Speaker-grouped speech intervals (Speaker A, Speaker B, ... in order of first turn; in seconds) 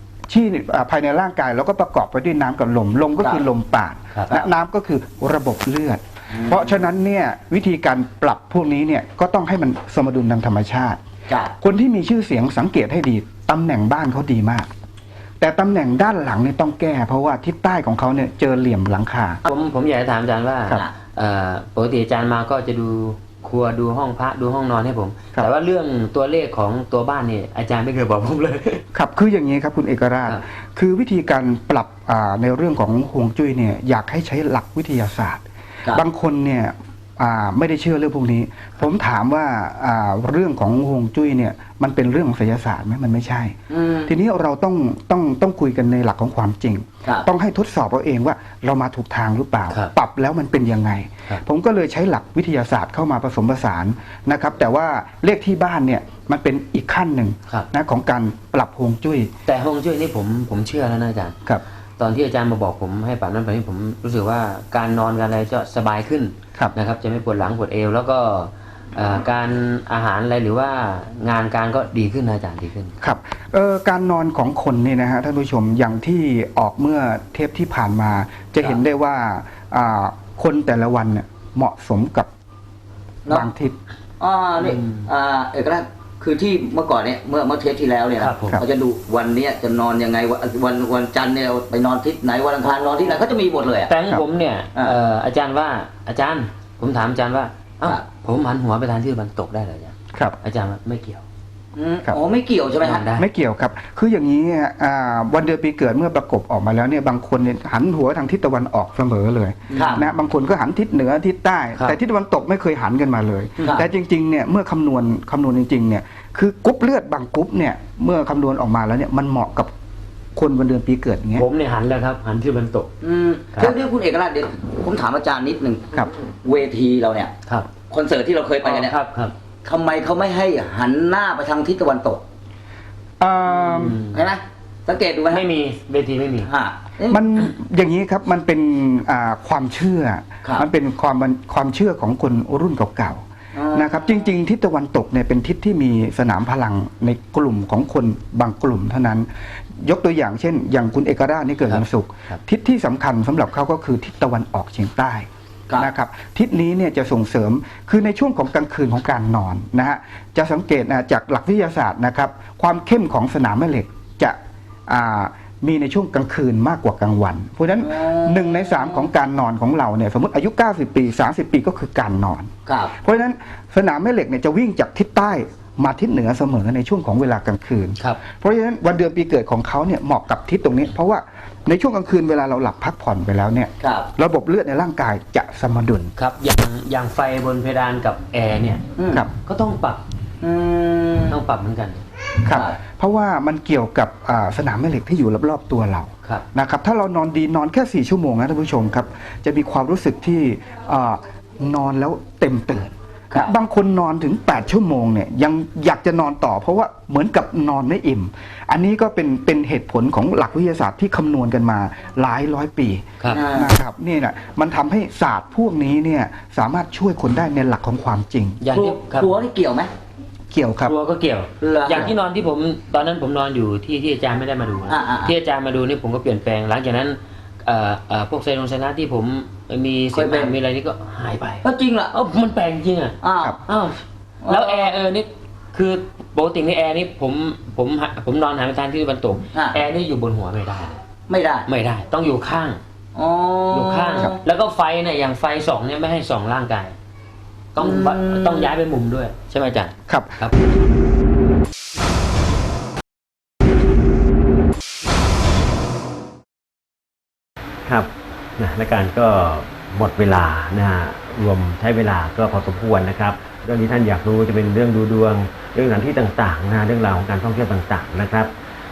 Speaker A: 0.3-11.0, 11.6-14.7, 15.4-19.4, 28.9-59.3, 73.0-82.3, 83.3-83.8, 103.1-119.7, 120.3-121.5, 133.2-134.0, 137.1-149.3, 149.8-155.3, 155.8-186.1, 192.4-218.6, 220.5-220.9, 250.1-250.4
Speaker B: 6.3-6.8, 43.7-44.1, 84.2-93.9, 101.7-103.1, 109.7-110.0, 113.6-113.8, 123.0-125.8, 126.4-127.3, 127.9-129.0, 129.6-132.2, 134.1-135.4, 136.4-137.2, 143.5-144.3, 167.8-169.0, 172.7-172.9, 183.8-184.1, 189.0-189.2, 190.4-191.4, 192.5-192.8, 213.3-213.7, 218.7-219.9, 221.6-222.1, 224.9-225.3, 230.1-230.5, 231.6-232.1, 233.2-233.6, 234.4-234.9, 239.5-239.8, 241.3-241.7, 243.1-244.3, 247.8-248.7
Speaker C: 19.5-28.8, 59.5-61.4, 62.0-73.0, 84.6-85.0, 88.2-88.6, 93.9-101.2, 102.8-103.2, 121.3-122.9, 128.6-129.3, 133.7-134.2, 135.3-136.5, 151.7-152.4, 186.2-188.8, 189.3-190.0, 191.3-192.0, 218.6-219.3, 220.8-241.0, 241.7-242.8, 243.7-246.9, 247.7-250.5
Speaker D: 257.9-268.5